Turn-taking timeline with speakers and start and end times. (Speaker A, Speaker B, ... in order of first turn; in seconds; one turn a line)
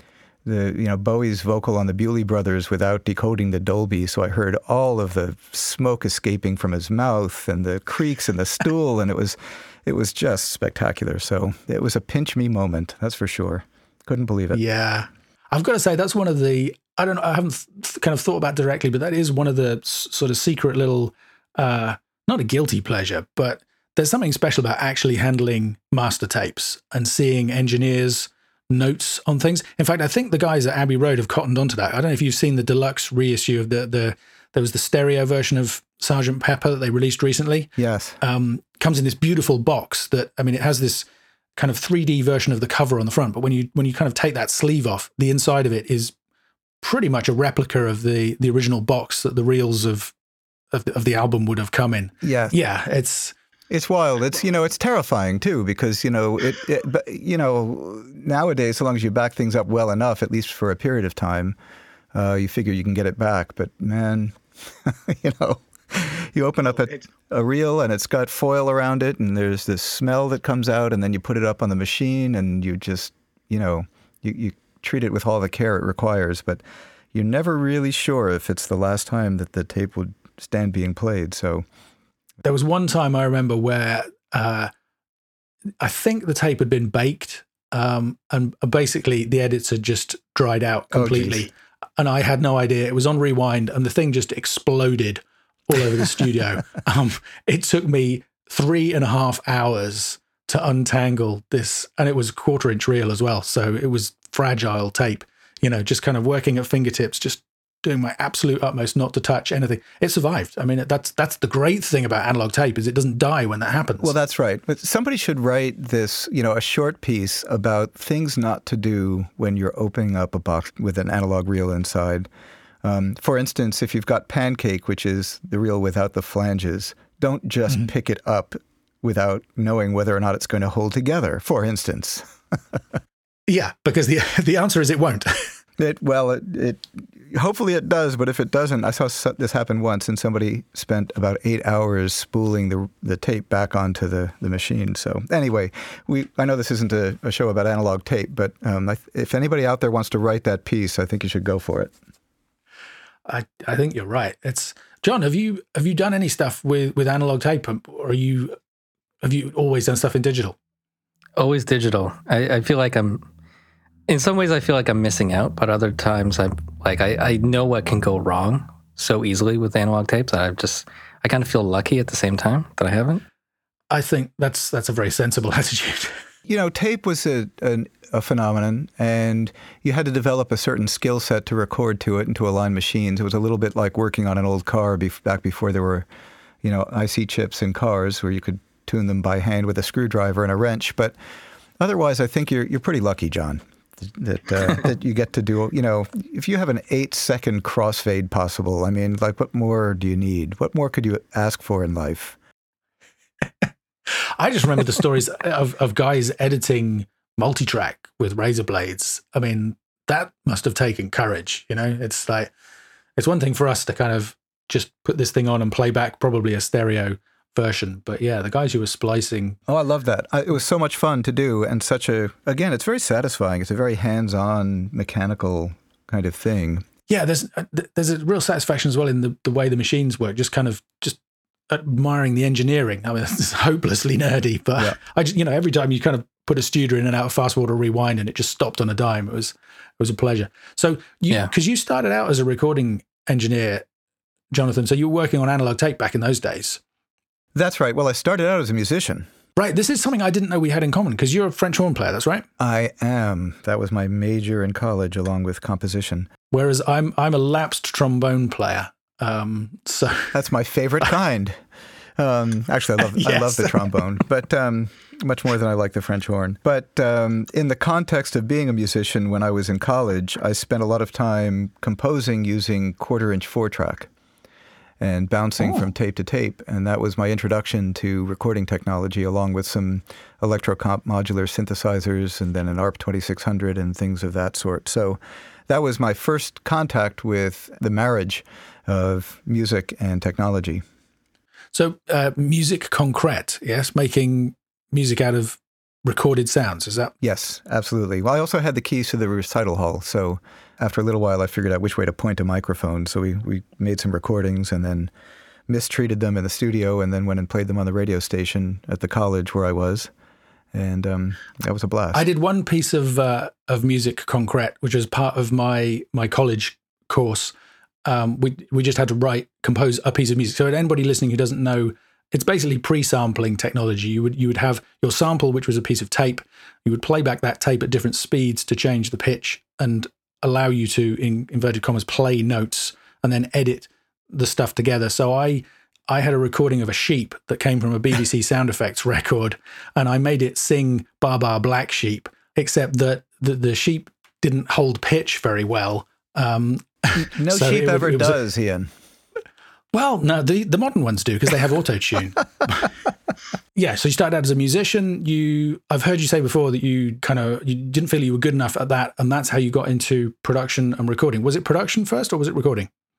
Speaker A: 0.5-14.6
Speaker B: 14.5-46.1
Speaker A: 37.8-38.2
Speaker B: 46.8-50.1
Speaker B: 50.7-53.3
Speaker A: 52.2-52.6
Speaker A: 53.7-61.6
Speaker A: 62.1-76.6
Speaker A: 77.1-81.7
Speaker B: 82.4-84.7
Speaker B: 85.8-114.2
Speaker A: 90.9-91.5
Speaker A: 114.0-122.3
Speaker A: 122.8-132.8
Speaker B: 133.5-135.5
Speaker A: 135.8-151.9
Speaker B: 153.3-158.6
Speaker B: 159.2-160.6
Speaker C: 161.4-163.2
Speaker C: 164.1-173.2
Speaker B: 173.9-176.2
Speaker A: 176.5-186.1
Speaker A: 186.6-191.2
Speaker A: 191.8-202.4
Speaker B: 204.1-212.5
Speaker B: 213.2-219.6
Speaker A: 219.7-226.9
Speaker B: 227.1-243.9
Speaker B: 244.5-246.8
Speaker A: 247.5-249.3
Speaker B: 249.6-252.5
Speaker A: 252.6-256.3
Speaker B: 256.5-260.3
Speaker A: 260.3-261.6
Speaker A: 262.2-274.1
Speaker B: 263.0-263.9
Speaker A: 275.0-290.8
Speaker B: 291.7-297.1
Speaker A: 297.2-305.1
Speaker A: 305.7-310.1
Speaker A: 310.7-312.3
Speaker B: 312.1-317.5
Speaker B: 318.1-348.4
Speaker A: 347.1-348.9
Speaker B: 349.9-352.9
Speaker B: 353.8-362.9